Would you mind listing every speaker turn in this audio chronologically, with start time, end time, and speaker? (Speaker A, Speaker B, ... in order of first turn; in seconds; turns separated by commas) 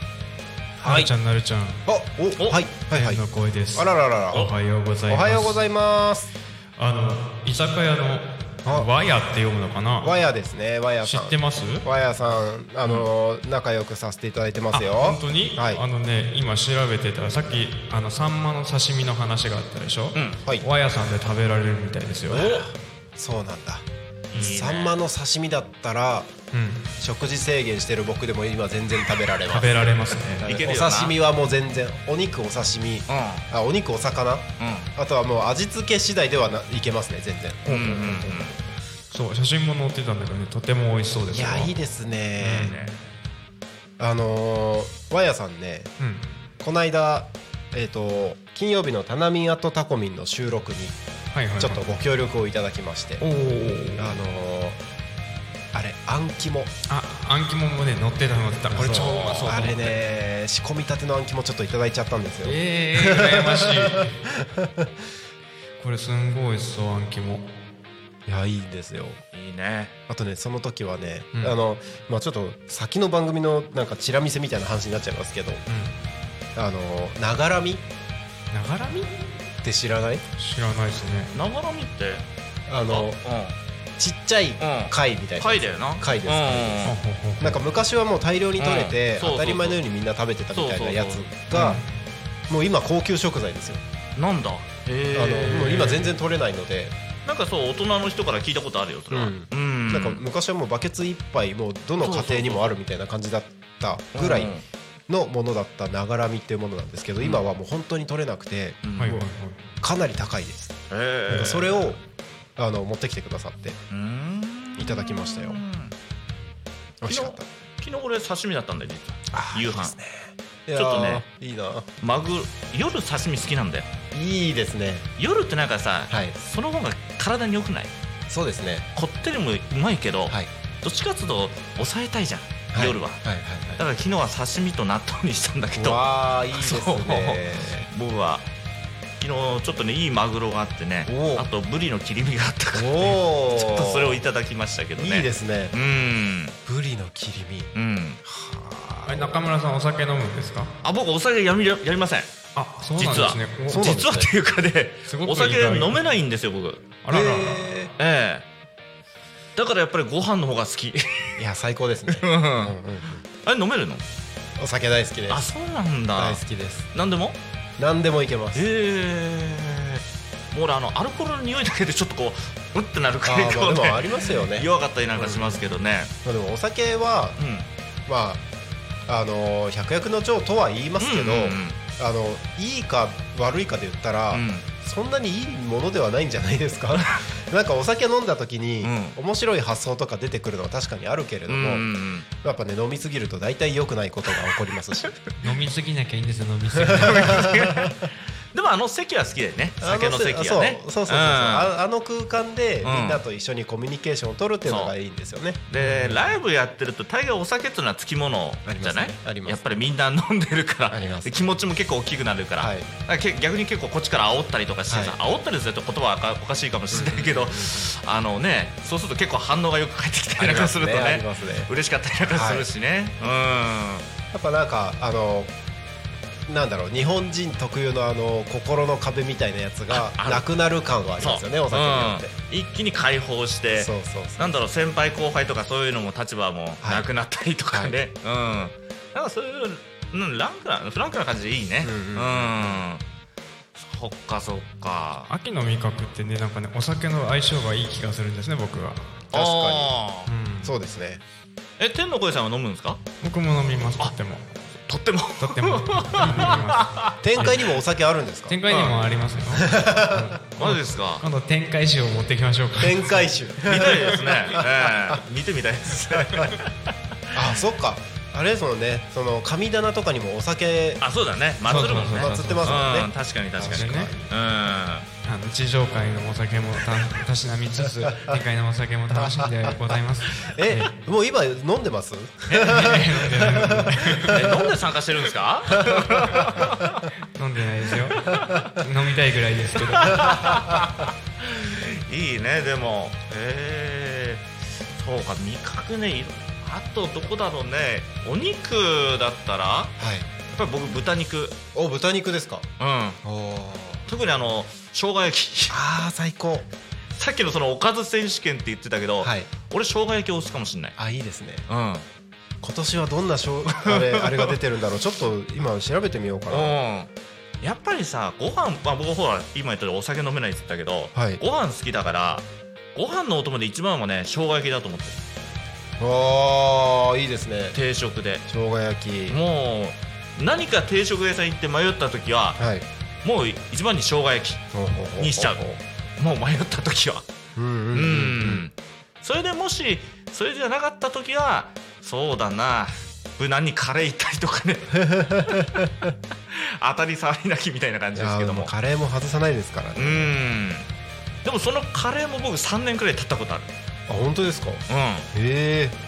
Speaker A: 0.8-1.1, Speaker B: 0.8-1.8, Speaker A: 1.9-4.5, Speaker C: 2.4-2.6, Speaker B: 2.9-5.6, Speaker A: 5.1-6.3, Speaker B: 6.8-10.1, Speaker A: 8.6-8.9, Speaker A: 10.0-15.8, Speaker B: 11.0-11.8, Speaker B: 14.7-22.5, Speaker C: 20.1-20.4, Speaker A: 22.3-26.3, Speaker C: 22.3-22.6, Speaker C: 24.3-25.0, Speaker B: 26.5-26.9, Speaker A: 27.0-29.7, Speaker B: 29.5-30.5, Speaker A: 30.4-38.5, Speaker C: 30.4-31.1, Speaker C: 33.1-33.5, Speaker C: 34.6-34.9, Speaker B: 37.6-38.2, Speaker C: 37.7-38.6, Speaker B: 39.1-41.7, Speaker A: 41.3-42.7, Speaker B: 42.4-42.9, Speaker C: 42.6-42.9, Speaker A: 44.0-45.9, Speaker B: 46.0-46.3, Speaker A: 46.6-51.0, Speaker B: 51.3-51.8, Speaker A: 51.6-53.2, Speaker C: 53.2-54.2, Speaker A: 54.0-54.8, Speaker A: 55.7-56.7, Speaker B: 56.9-59.9, Speaker A: 58.7-64.9, Speaker C: 59.2-59.5, Speaker B: 62.4-64.2, Speaker B: 65.8-67.4, Speaker A: 68.2-69.2, Speaker C: 69.3-69.9, Speaker A: 70.1-75.6, Speaker B: 75.7-75.9, Speaker A: 76.5-77.8, Speaker B: 78.5-79.1, Speaker A: 79.6-80.2, Speaker B: 80.4-81.3, Speaker C: 81.3-82.2, Speaker A: 82.7-83.2, Speaker C: 82.9-83.5, Speaker A: 84.0-91.8, Speaker C: 84.6-86.9, Speaker B: 86.8-87.6, Speaker C: 88.6-89.8, Speaker C: 90.5-91.3, Speaker B: 91.5-91.9, Speaker A: 92.5-93.8, Speaker C: 94.2-96.1, Speaker A: 95.1-97.0, Speaker C: 97.2-100.2, Speaker A: 99.1-104.5, Speaker C: 102.0-102.8, Speaker C: 104.1-104.6, Speaker A: 105.1-109.3, Speaker C: 107.2-107.5, Speaker C: 108.8-109.1, Speaker B: 109.0-109.6, Speaker A: 109.8-110.8, Speaker C: 110.9-111.9, Speaker A: 111.3-112.0, Speaker A: 112.6-113.8, Speaker C: 113.9-116.0, Speaker A: 114.8-115.6, Speaker A: 117.0-117.5, Speaker C: 117.0-119.9, Speaker A: 119.3-121.9, Speaker C: 120.7-121.2, Speaker C: 122.0-123.9, Speaker A: 124.1-125.1, Speaker C: 125.2-127.9, Speaker A: 126.1-126.3, Speaker A: 128.3-128.9, Speaker C: 128.9-133.2, Speaker A: 132.7-133.8, Speaker C: 133.8-138.5, Speaker A: 135.8-137.9, Speaker C: 139.2-146.6, Speaker A: 141.1-141.5, Speaker A: 142.7-144.2, Speaker A: 145.0-145.7, Speaker A: 146.6-147.7, Speaker C: 147.7-148.2, Speaker A: 148.2-149.4, Speaker B: 149.1-150.7, Speaker C: 150.8-152.3, Speaker B: 152.6-154.0, Speaker C: 153.0-157.0, Speaker A: 153.7-154.3, Speaker B: 155.1-156.0, Speaker B: 157.0-157.7, Speaker A: 157.1-157.9, Speaker C: 158.0-158.4, Speaker C: 159.6-161.4, Speaker A: 161.4-163.2, Speaker C: 162.1-162.7, Speaker C: 163.4-164.0, Speaker A: 164.6-165.4, Speaker C: 165.3-166.4, Speaker A: 166.1-166.9, Speaker C: 166.9-167.4, Speaker A: 167.8-168.7, Speaker C: 168.5-176.1, Speaker A: 173.2-175.7, Speaker A: 176.2-177.4, Speaker C: 177.4-177.7, Speaker A: 178.1-178.4, Speaker A: 179.1-195.2, Speaker C: 181.0-181.8, Speaker C: 184.3-184.7, Speaker C: 188.8-189.2, Speaker C: 191.5-192.2, Speaker B: 195.4-197.6, Speaker A: 196.8-197.9, Speaker C: 197.0-201.7, Speaker A: 199.8-205.6, Speaker C: 202.8-203.2, Speaker C: 204.6-204.9, Speaker C: 205.7-224.1, Speaker B: 205.8-206.3, Speaker A: 208.6-209.6, Speaker A: 210.9-211.3, Speaker A: 212.6-212.9, Speaker A: 214.9-215.2, Speaker A: 216.9-217.9, Speaker A: 220.4-221.7, Speaker A: 222.2-222.7, Speaker A: 224.3-225.5, Speaker A: 226.5-232.3, Speaker C: 229.9-230.4, Speaker C: 231.2-243.0, Speaker A: 233.8-234.6, Speaker A: 236.8-237.1, Speaker A: 237.7-237.9, Speaker A: 241.8-242.8, Speaker C: 243.8-245.3, Speaker B: 245.3-249.2, Speaker A: 249.3-249.9, Speaker C: 249.3-250.3, Speaker B: 250.3-250.7, Speaker A: 250.6-251.2, Speaker C: 251.8-253.0, Speaker B: 253.2-254.6, Speaker C: 254.9-257.1, Speaker B: 255.4-257.7, Speaker A: 256.2-256.6, Speaker A: 257.2-258.6, Speaker B: 258.5-263.2, Speaker C: 258.7-259.0, Speaker A: 259.5-260.3, Speaker C: 260.6-261.2, Speaker A: 262.8-265.2, Speaker C: 263.6-266.9, Speaker A: 266.1-266.5, Speaker A: 267.3-271.0, Speaker C: 271.0-275.1, Speaker B: 271.6-272.9, Speaker A: 271.7-274.3, Speaker B: 273.6-274.1, Speaker B: 275.2-280.9, Speaker A: 278.0-278.4, Speaker A: 279.1-284.7, Speaker B: 282.5-284.5, Speaker C: 283.4-287.1, Speaker A: 285.7-286.6, Speaker B: 287.3-290.5, Speaker C: 288.1-288.7, Speaker C: 289.8-301.6, Speaker A: 290.1-290.6, Speaker A: 300.0-300.3, Speaker A: 301.7-302.7, Speaker C: 302.8-303.2, Speaker A: 303.2-304.0, Speaker C: 304.1-305.8, Speaker A: 305.7-306.7, Speaker C: 307.1-310.9, Speaker A: 309.2-309.5, Speaker A: 310.9-311.6, Speaker C: 311.7-312.1, Speaker A: 312.6-316.8, Speaker C: 313.7-314.6, Speaker C: 316.5-325.2, Speaker A: 321.1-321.4, Speaker A: 326.0-327.8, Speaker C: 327.7-328.4, Speaker A: 328.5-329.4, Speaker C: 329.3-332.6, Speaker A: 332.6-332.9, Speaker C: 333.2-334.6, Speaker A: 334.7-335.8, Speaker C: 335.2-335.6, Speaker C: 336.2-337.2, Speaker A: 337.6-338.7, Speaker C: 337.9-348.7, Speaker A: 344.9-346.1, Speaker A: 348.1-350.3, Speaker C: 349.9-350.9, Speaker C: 351.4-353.7, Speaker A: 354.1-356.0, Speaker C: 354.9-355.3